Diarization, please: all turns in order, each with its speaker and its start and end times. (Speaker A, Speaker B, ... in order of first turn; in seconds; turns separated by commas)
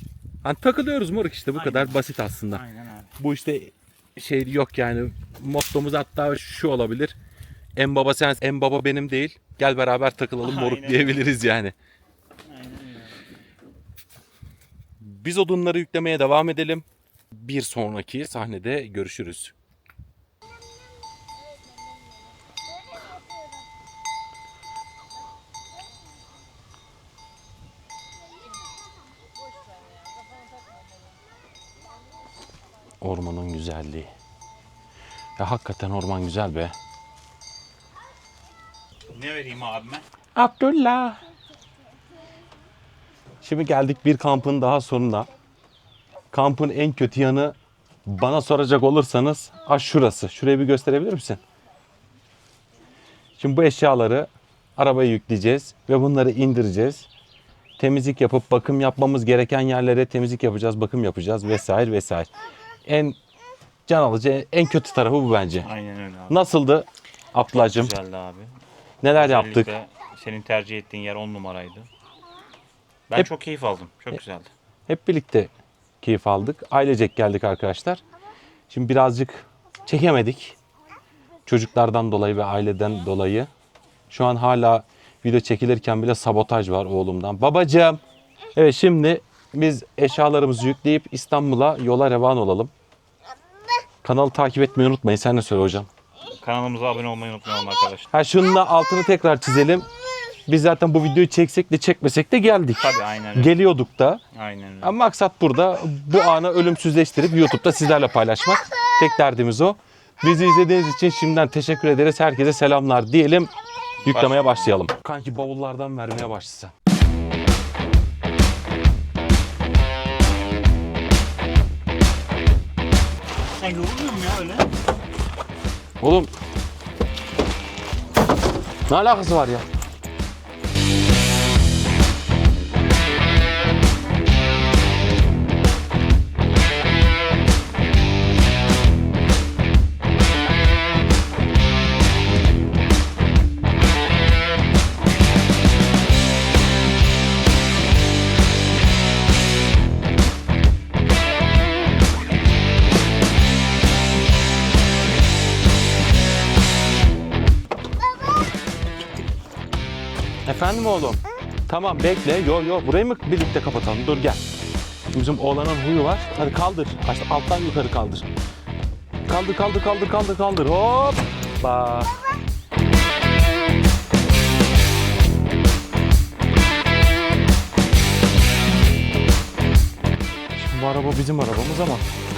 Speaker A: 0.4-2.6, Speaker B: 1.5-3.1, Speaker A: 3.2-7.2, Speaker A: 7.8-11.7, Speaker B: 10.4-11.2, Speaker B: 12.5-13.2, Speaker A: 15.0-19.5, Speaker A: 33.0-34.1, Speaker A: 35.4-36.7, Speaker B: 39.1-40.0, Speaker A: 40.4-41.2, Speaker A: 43.4-45.3, Speaker A: 46.3-51.4, Speaker A: 53.4-57.1, Speaker A: 57.8-62.3, Speaker A: 62.9-63.2, Speaker A: 63.9-65.7, Speaker B: 65.6-66.4, Speaker A: 66.3-67.9, Speaker B: 67.5-68.5, Speaker A: 69.0-69.7, Speaker B: 69.1-71.9, Speaker B: 73.1-74.5, Speaker A: 74.9-75.5, Speaker A: 76.0-78.0, Speaker A: 78.7-80.6, Speaker A: 81.5-83.5, Speaker A: 84.1-88.0, Speaker A: 88.5-92.7, Speaker A: 94.0-95.9, Speaker B: 96.3-98.1, Speaker A: 98.1-99.9, Speaker A: 100.5-104.2, Speaker B: 102.7-103.6, Speaker B: 104.3-104.9, Speaker A: 104.8-113.5, Speaker B: 114.0-114.7, Speaker A: 114.0-116.7, Speaker B: 123.5-124.7, Speaker A: 126.0-126.3, Speaker A: 128.9-129.6, Speaker A: 160.4-164.4, Speaker A: 165.1-168.3, Speaker A: 169.2-172.2, Speaker A: 180.5-182.0